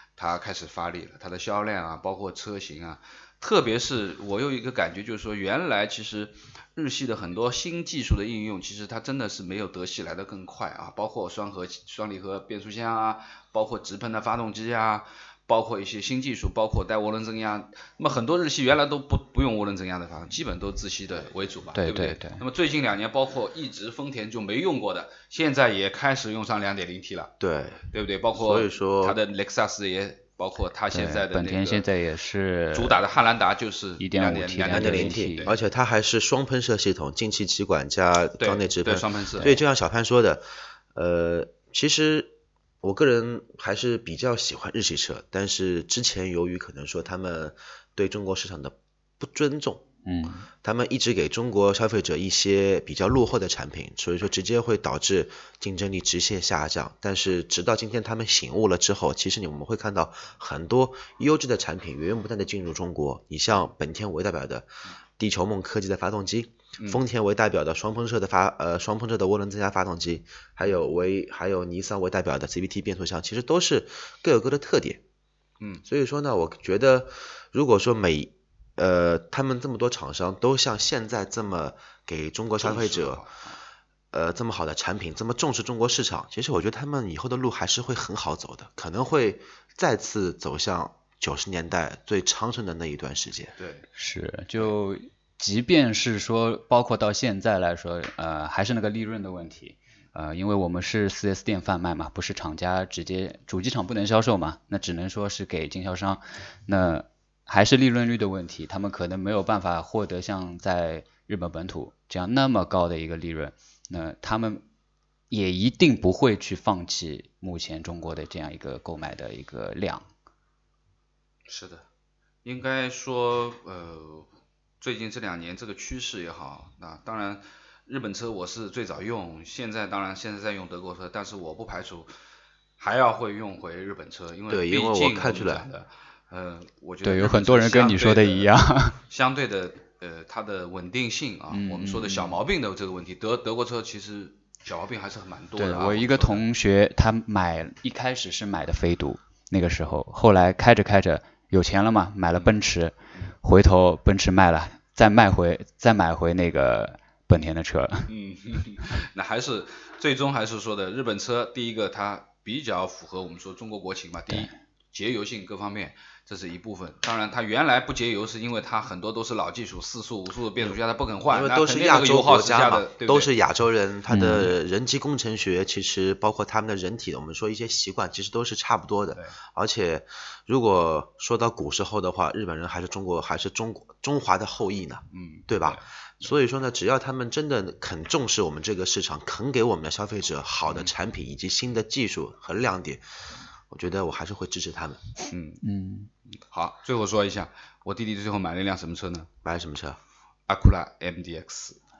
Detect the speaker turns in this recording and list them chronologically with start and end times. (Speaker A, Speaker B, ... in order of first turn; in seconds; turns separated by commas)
Speaker A: 0.2-27.3, Speaker B: 21.7-22.4, Speaker C: 27.4-29.2, Speaker A: 27.9-31.9, Speaker B: 30.9-33.0, Speaker A: 32.7-35.6, Speaker B: 34.0-35.5, Speaker C: 34.7-49.8, Speaker A: 38.4-39.6, Speaker B: 50.0-50.5, Speaker C: 50.6-75.0, Speaker C: 75.8-83.2, Speaker A: 82.6-83.6, Speaker C: 84.1-93.5, Speaker A: 93.6-93.8, Speaker B: 94.0-114.6, Speaker B: 115.3-120.0, Speaker A: 121.5-121.8, Speaker A: 122.4-124.3, Speaker A: 124.8-132.1, Speaker A: 132.8-138.5, Speaker C: 134.5-135.7, Speaker B: 137.0-139.0, Speaker A: 139.1-146.4, Speaker B: 141.5-142.4, Speaker B: 145.6-158.1, Speaker A: 158.1-173.3, Speaker C: 171.3-193.0, Speaker B: 174.1-174.5, Speaker A: 185.1-185.8, Speaker C: 193.7-195.0, Speaker A: 195.3-195.6, Speaker B: 195.6-196.1, Speaker A: 196.3-199.3, Speaker C: 199.4-200.0, Speaker A: 200.5-201.8